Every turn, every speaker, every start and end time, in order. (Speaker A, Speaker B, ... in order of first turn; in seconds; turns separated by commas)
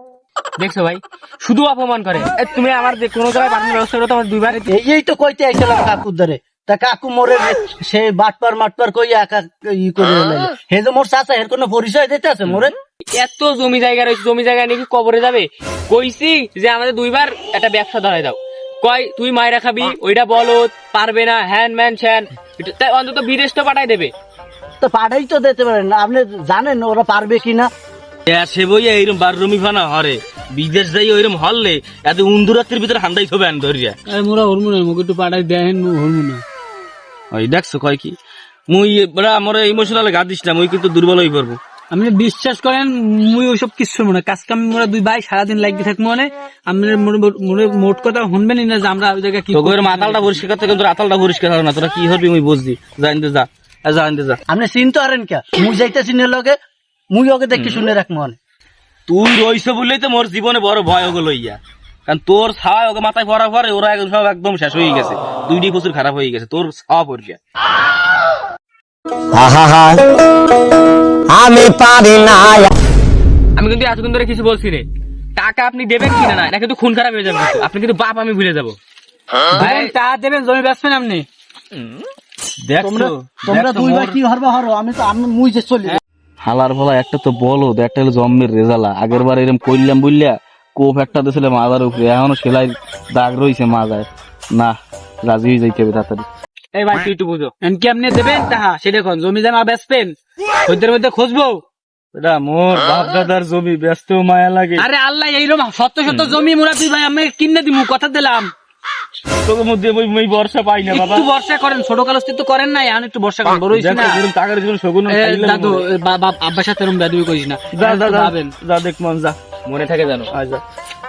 Speaker A: 0.6-4.7, Speaker B: 4.7-12.7, Speaker A: 13.1-24.1, Speaker B: 24.8-27.7, Speaker C: 28.3-34.0, Speaker D: 34.1-36.4, Speaker C: 37.3-38.2, Speaker C: 38.7-41.6, Speaker D: 41.9-50.4, Speaker C: 49.5-54.4, Speaker B: 54.5-56.6, Speaker B: 57.1-58.4, Speaker C: 57.5-57.9, Speaker C: 59.1-67.4, Speaker E: 69.3-70.0, Speaker E: 71.3-72.7, Speaker A: 73.6-78.8, Speaker A: 79.5-79.9, Speaker D: 79.5-81.3, Speaker A: 81.7-82.1, Speaker C: 82.6-84.2, Speaker B: 82.8-86.0, Speaker C: 86.4-96.3, Speaker A: 96.7-97.5, Speaker D: 97.6-101.6, Speaker C: 102.1-104.9, Speaker D: 104.8-108.5, Speaker C: 106.1-106.4, Speaker C: 109.4-111.3, Speaker D: 110.9-114.2, Speaker C: 113.5-115.9, Speaker D: 115.1-118.5, Speaker C: 117.7-119.4, Speaker A: 119.7-120.3, Speaker C: 120.3-120.6